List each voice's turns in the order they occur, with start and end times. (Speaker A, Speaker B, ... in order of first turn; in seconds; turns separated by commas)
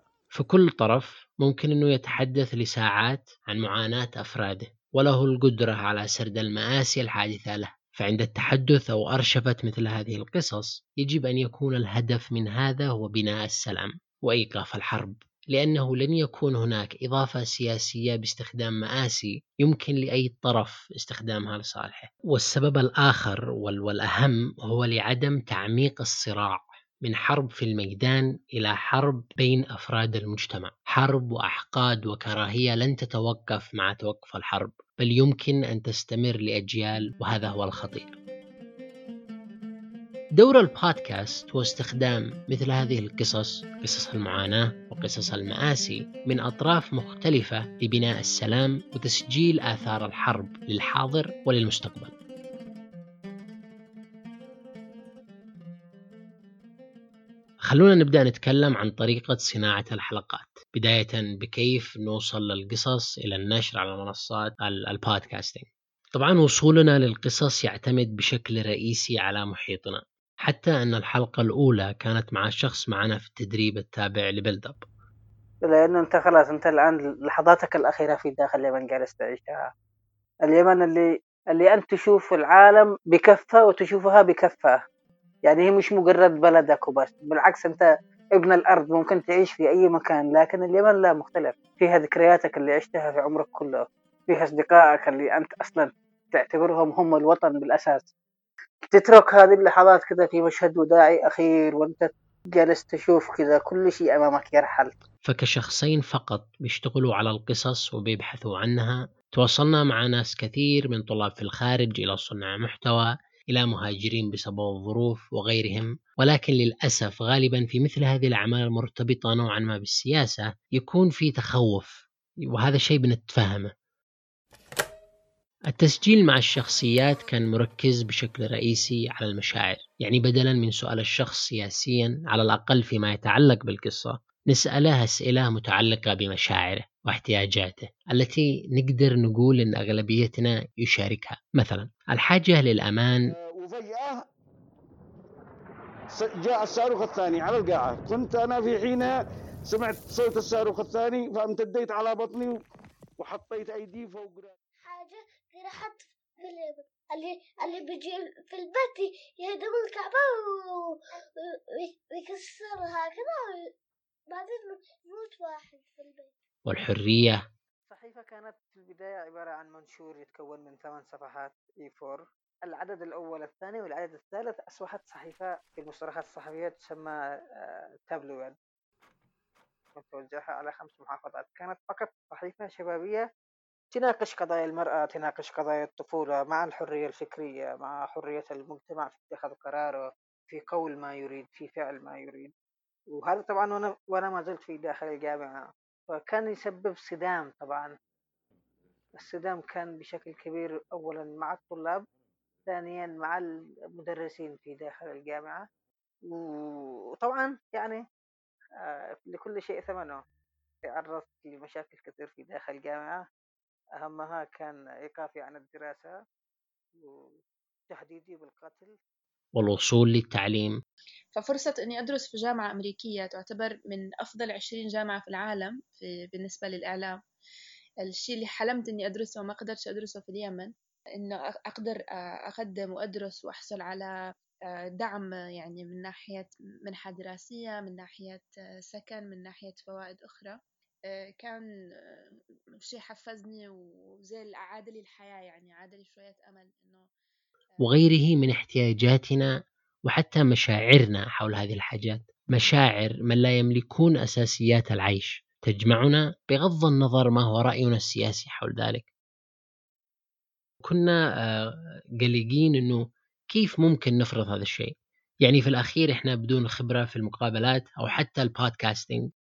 Speaker A: 0.3-38.1, Speaker A: 40.4-52.1, Speaker A: 57.6-74.8, Speaker B: 75.6-79.7, Speaker B: 80.5-84.7, Speaker B: 85.5-87.8, Speaker B: 88.3-98.1, Speaker B: 98.9-104.9, Speaker A: 105.2-123.7, Speaker A: 125.7-143.3, Speaker C: 143.3-144.2, Speaker C: 146.1-152.6, Speaker C: 153.2-154.5, Speaker D: 154.8-163.7, Speaker D: 164.3-166.3, Speaker A: 166.7-167.4, Speaker B: 167.9-177.1, Speaker B: 178.1-178.5, Speaker B: 180.0-183.2, Speaker B: 183.9-192.5, Speaker B: 193.2-197.9, Speaker B: 199.2-202.0, Speaker B: 202.7-203.4, Speaker B: 204.0-205.6, Speaker B: 206.4-208.0, Speaker B: 209.3-210.2, Speaker B: 210.9-213.2, Speaker B: 214.0-216.1, Speaker B: 217.9-218.9, Speaker A: 219.6-220.8, Speaker E: 221.3-227.1, Speaker E: 228.1-234.1, Speaker E: 234.9-240.5, Speaker E: 242.8-243.7, Speaker E: 244.3-247.0, Speaker A: 247.8-249.5, Speaker A: 250.1-259.1, Speaker A: 260.8-269.2